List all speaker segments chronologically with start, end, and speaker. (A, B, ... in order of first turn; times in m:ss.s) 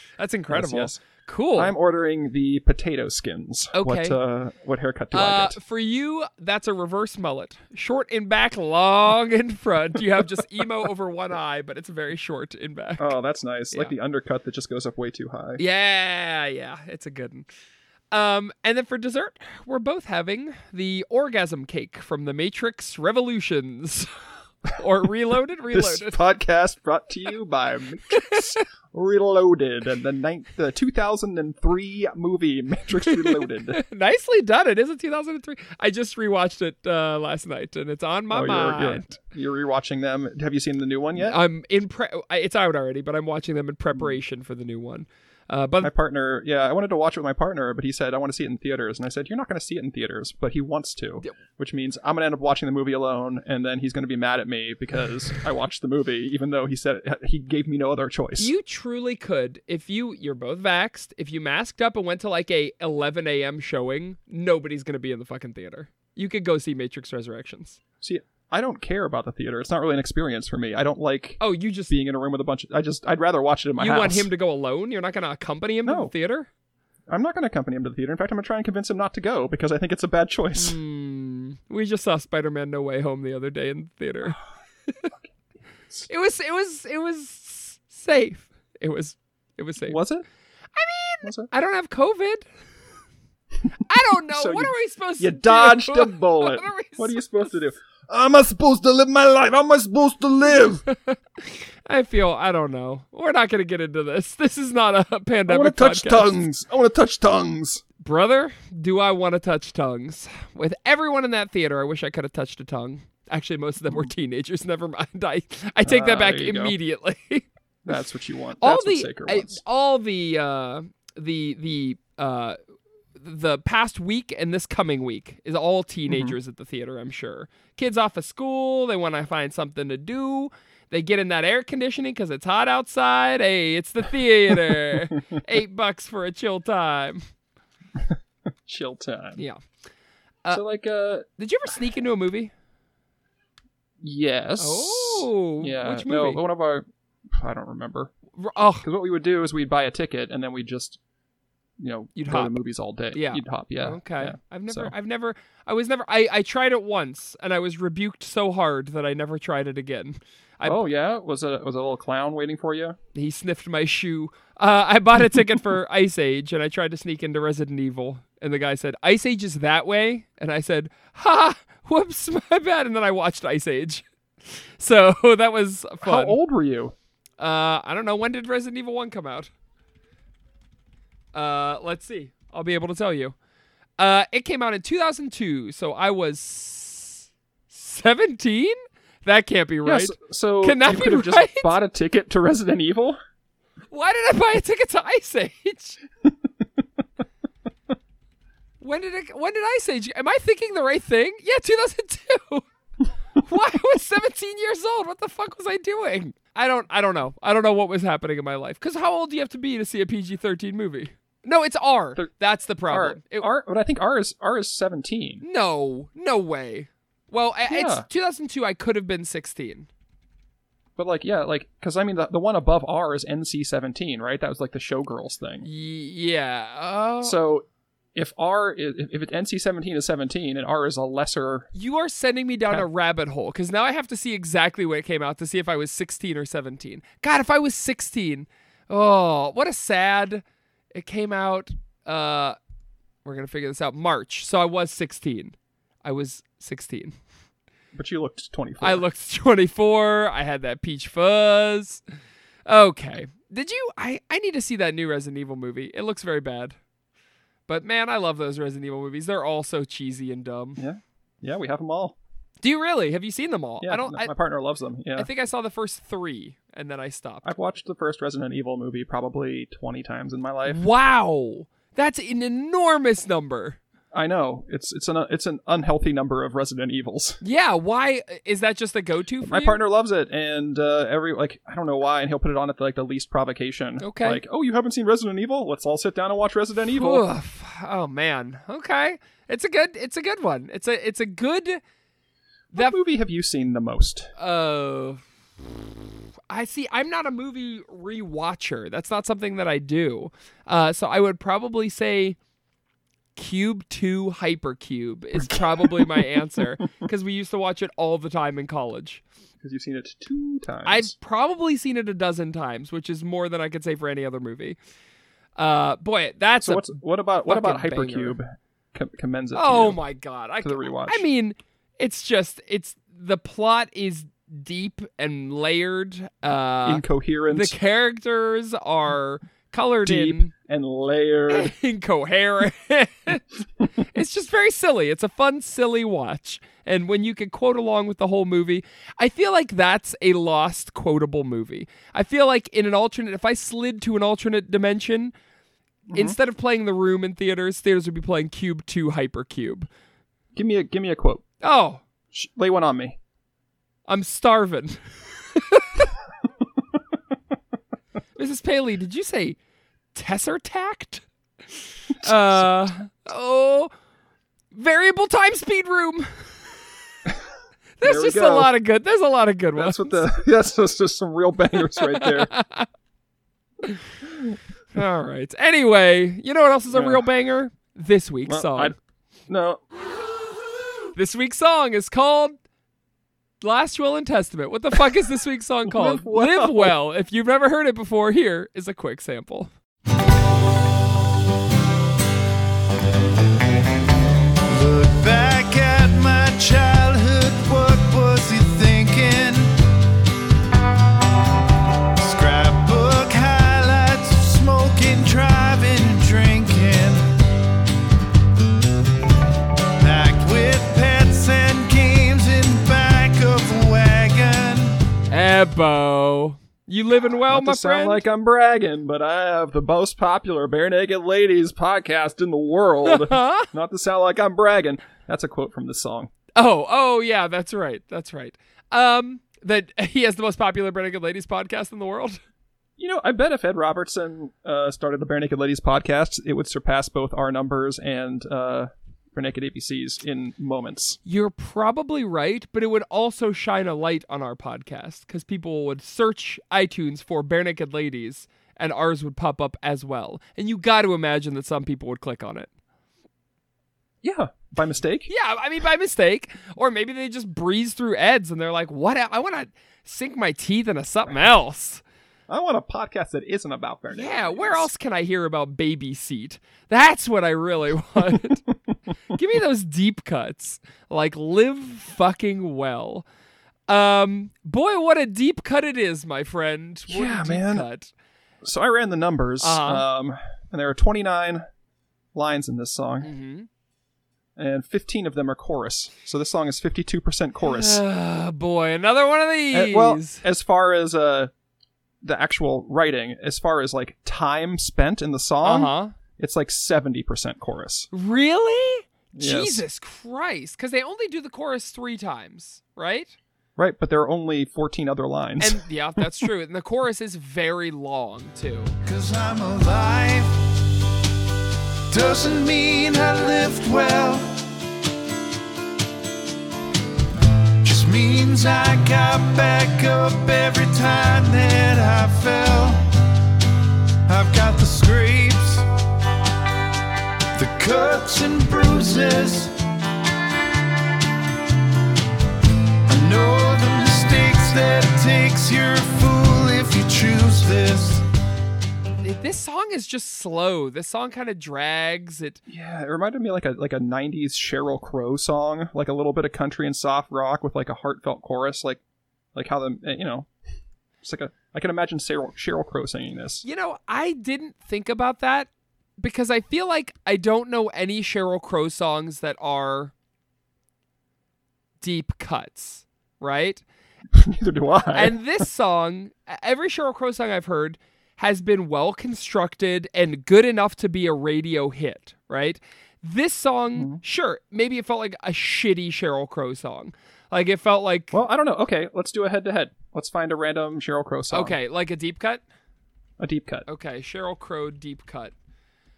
0:00.2-0:01.7 A
0:00.5-0:01.0 B
0:01.6-0:05.6 B
0:03.7-0:04.2 A
0:05.1-0:13.2 A
0:13.0-0:15.6 B
0:15.6-0:17.5 A
0:18.1-0:24.1 A
0:24.7-0:26.2 A
0:25.7-0:33.8 B
0:28.1-0:28.4 A
0:33.1-0:39.2 A
0:38.3-0:41.4 B
0:41.2-0:45.9 A
0:45.8-0:58.5 B
0:58.4-1:07.8 A
1:08.0-1:14.3 B
1:11.4-1:11.9 A
1:13.8-1:16.5 A
1:15.8-1:16.1 B
1:17.1-1:20.8 B
1:20.6-1:24.4 A
1:26.1-1:30.0 A
1:29.9-1:30.2 B
1:30.8-1:32.5 A
1:31.2-1:31.5 B
1:33.8-1:37.2 A
1:34.3-1:40.8 B
1:40.9-1:46.4 A
1:45.5-1:47.8 B
1:48.0-1:57.5 A
1:55.8-1:56.8 B
1:57.8-1:59.6 B
1:58.6-2:02.6 A
2:03.2-2:17.2 A
2:06.1-2:06.4 B
2:18.0-2:19.4 B
2:20.5-2:21.3 B
2:21.4-2:22.5 A
2:24.0-2:28.1 B
2:24.6-2:26.4 A
2:28.4-2:28.9 A
2:28.8-2:31.0 B
2:31.8-2:34.9 B
2:32.2-2:32.5 A
2:33.1-2:40.8 A
2:40.6-2:43.0 B
2:43.2-2:56.4 A
2:56.0-2:56.9 B
2:57.4-2:59.5 A
3:01.3-3:03.4 A
3:04.0-3:11.7 A
3:09.8-3:13.2 B
3:13.9-3:16.0 A
3:18.8-3:22.6 A
3:23.4-3:33.5 A
3:32.9-3:35.4 B
3:35.4-3:39.9 A
3:37.7-3:38.1 B
3:41.0-3:45.7 B
3:45.6-3:47.4 A
3:47.2-3:51.7 B
3:51.7-4:02.6 A
4:03.2-4:07.2 A
4:07.9-4:09.0 B
4:08.8-4:12.0 A
4:12.7-4:16.8 A
4:17.7-4:20.8 A
4:20.8-4:22.2 B
4:22.6-4:24.3 A
4:23.8-4:25.3 B
4:25.2-4:27.4 A
4:27.4-4:30.8 B
4:30.7-4:33.8 A
4:34.1-4:37.4 B
4:37.4-4:39.8 A
4:39.4-4:47.2 B
4:44.0-4:44.4 A
4:46.9-4:51.8 A
4:52.7-4:54.3 B
4:54.4-4:55.2 A
4:56.5-5:02.4 A
5:03.4-5:09.2 A
5:05.4-5:06.3 B
5:09.6-5:11.1 B
5:10.9-5:14.8 A
5:15.6-5:16.9 A
5:16.6-5:20.0 B
5:17.4-5:18.4 A
5:19.5-5:30.5 A
5:20.6-5:21.2 B
5:26.8-5:27.8 B
5:30.0-5:31.7 B
5:31.5-5:33.4 A
5:34.0-5:45.3 A
5:46.1-5:46.4 B
5:46.1-5:49.9 A
5:50.5-5:51.4 B
5:51.6-5:52.0 A
5:52.3-5:53.2 B
5:54.1-5:56.1 A
5:58.4-5:59.6 A
6:00.1-6:01.2 A
6:02.1-6:03.9 A
6:02.2-6:02.9 B
6:04.7-6:06.5 A
6:08.0-6:10.3 A
6:08.0-6:08.7 B
6:09.8-6:12.5 B
6:12.0-6:12.9 A
6:14.9-6:18.9 A
6:16.9-6:17.2 B
6:18.5-6:19.0 B
6:19.5-6:19.8 B
6:21.2-6:22.6 A
6:23.6-6:29.7 A
6:25.9-6:26.9 B
6:34.7-6:39.7 C
6:42.2-6:47.3 C
6:50.0-6:55.0 C
6:55.3-6:58.2 A
6:57.5-7:06.3 B
7:03.0-7:03.7 A
7:06.6-7:12.4 A
7:13.0-7:21.2 B
7:21.3-7:32.7 A
7:34.2-7:35.3 B
7:35.3-7:42.0 A
7:42.5-7:44.9 B
7:44.1-7:48.6 A
7:49.3-7:53.3 A
7:53.9-7:58.1 A
7:57.1-7:57.9 B
7:58.6-8:01.6 B
7:59.6-8:00.0 A
8:02.3-8:03.3 B
8:03.2-8:03.7 A
8:04.6-8:08.0 B
8:07.6-8:10.4 A
8:09.7-8:11.5 B
8:12.2-8:18.1 B
8:15.6-8:16.2 A
8:18.1-8:23.4 A
8:19.3-8:19.8 B
8:23.8-8:26.2 B
8:25.6-8:29.0 A
8:29.0-8:30.6 C
8:32.1-8:34.6 C
8:37.8-8:43.0 C
8:44.3-8:45.9 C
8:47.6-8:49.8 C
8:53.1-8:58.2 C
8:59.2-9:02.6 A
9:02.7-9:09.0 B
9:09.6-9:10.5 B
9:11.2-9:13.6 B
9:13.6-9:20.1 A
9:22.0-9:23.8 A
9:24.3-9:25.4 B
9:25.1-9:38.4 A
9:34.0-9:34.2 B
9:38.3-9:41.8 B
9:41.5-9:42.6 A
9:43.4-9:43.9 B
9:43.9-9:45.5 A